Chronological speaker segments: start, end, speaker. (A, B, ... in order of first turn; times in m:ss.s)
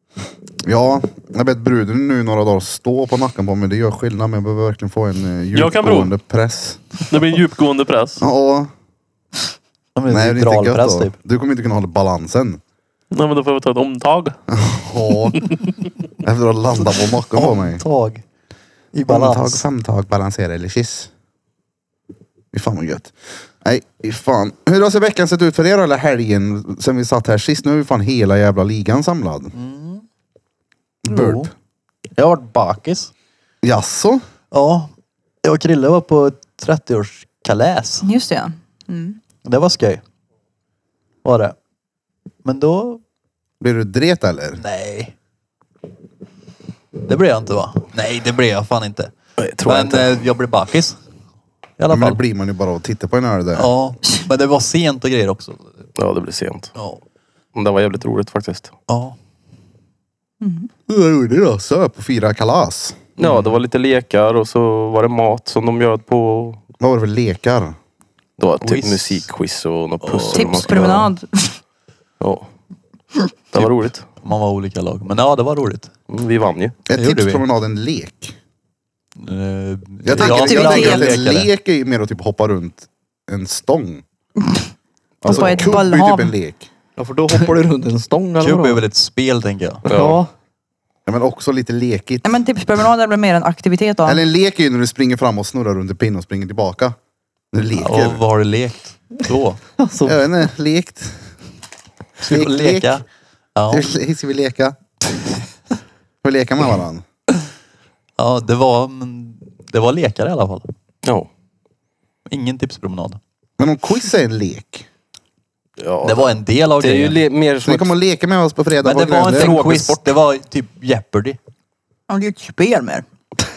0:00.6-0:06.8 A
0:05.5-0:06.1 B
0:07.1-0:08.2 B
0:08.2-0:08.7 A
0:09.9-0:11.1 C
0:10.1-0:12.6 A
0:13.1-0:14.4 B
0:14.5-0:15.4 A
0:16.2-0:17.8 A
0:17.3-0:18.2 C
0:18.9-0:19.6 C
0:19.1-0:21.1 A
0:22.5-0:29.5 A
0:29.5-0:30.0 C
0:31.0-0:31.5 A
0:31.1-0:31.5 C
0:32.2-0:33.1 C
0:33.6-0:34.2 A
0:34.5-0:34.9 C
0:35.4-0:38.0 C
0:38.0-0:39.2 D
0:39.4-0:40.0 C
0:41.2-0:41.5 C
0:42.4-0:43.0 C
0:43.6-0:44.6 A
0:44.6-0:45.1 C
0:47.0-0:51.0 C
0:49.4-0:50.1 E
0:51.8-0:52.2 C
0:51.9-0:53.7 A
0:53.5-0:55.6 C
0:56.0-0:56.7 E
0:56.7-0:57.0 C
0:57.5-0:58.7 E
0:58.9-0:59.1 C
1:00.4-1:00.7 D
1:00.9-1:03.0 A
1:03.2-1:06.6 E
1:03.2-1:03.5 C
1:06.8-1:07.8 A
1:08.4-1:11.1 E
1:08.6-1:09.2 C
1:10.0-1:10.9 C
1:10.3-1:11.6 D
1:12.2-1:12.5 E
1:13.5-1:14.1 E
1:13.6-1:15.9 C
1:16.1-1:16.8 E
1:16.9-1:18.4 A
1:16.9-1:17.4 C
1:19.2-1:21.5 C
1:20.0-1:24.0 A
1:20.2-1:21.1 D
1:25.2-1:26.7 A
1:25.2-1:26.3 D
1:27.0-1:28.8 F
1:28.4-1:29.9 C
1:29.8-1:30.2 E
1:29.9-1:30.3 F
1:31.0-1:32.3 A
1:32.2-1:34.2 D
1:34.0-1:37.0 A
1:37.5-1:38.2 A
1:37.8-1:39.6 C
1:39.8-1:40.3 F
1:40.0-1:41.2 A
1:42.2-1:43.0 C
1:42.2-1:43.0 A
1:43.6-1:43.9 C
1:43.7-1:44.8 A
1:46.2-1:47.0 A
1:48.2-1:50.7 C
1:51.0-1:51.3 E
1:52.3-1:53.2 C
1:53.6-1:54.9 A
1:55.8-1:57.9 E
1:56.0-1:57.2 C
1:57.6-1:59.5 A
1:58.8-2:01.4 C
1:59.3-2:00.1 E
2:02.1-2:03.0 D